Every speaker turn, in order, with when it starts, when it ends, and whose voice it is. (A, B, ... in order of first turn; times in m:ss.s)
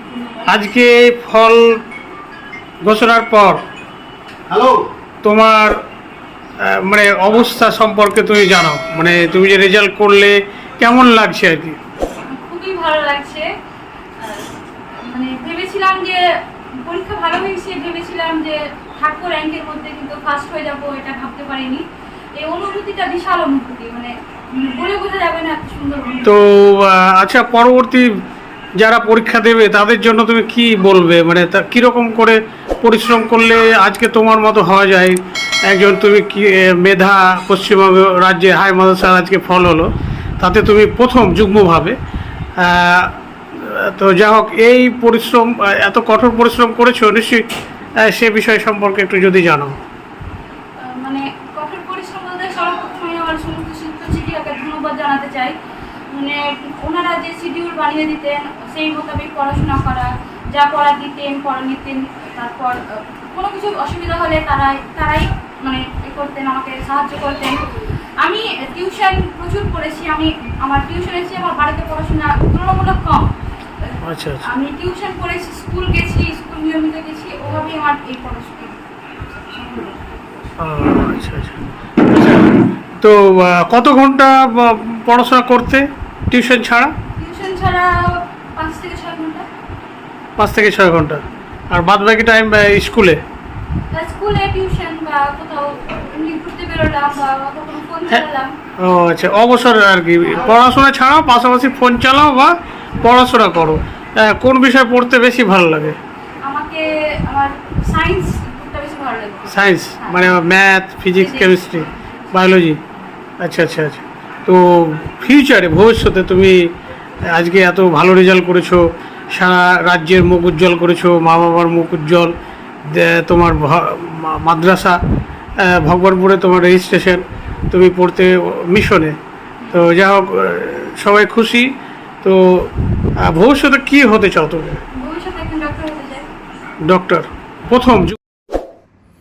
0:00.4-0:01.8 A
0:02.8-0:03.6 A
0:05.2-0:05.8 A
0:06.6-0:11.8 A
0:12.3-0:13.5 B
0:14.2-0:21.8 B
0:22.4-0:26.4 B
0:26.2-0:28.2 A
0:28.8-0:42.0 A
0:42.6-0:47.5 A
0:48.0-0:49.8 A
0:50.8-0:55.5 B
0:56.1-1:07.6 B
1:08.2-1:13.3 B
1:13.9-1:18.8 B
1:14.0-1:14.5 A
1:19.5-1:20.0 B
1:20.6-1:26.9 A
1:27.1-1:29.4 B
1:30.4-1:33.2 A
1:33.9-1:38.6 B
1:38.8-1:46.0 A
1:46.4-1:50.4 B
1:49.5-1:52.8 A
1:51.2-1:51.9 B
1:53.4-1:56.7 A
1:57.3-2:02.3 A
2:02.8-2:05.0 A
2:05.6-2:09.2 A
2:09.7-2:14.8 A
2:15.0-2:16.3 B
2:16.8-2:18.2 A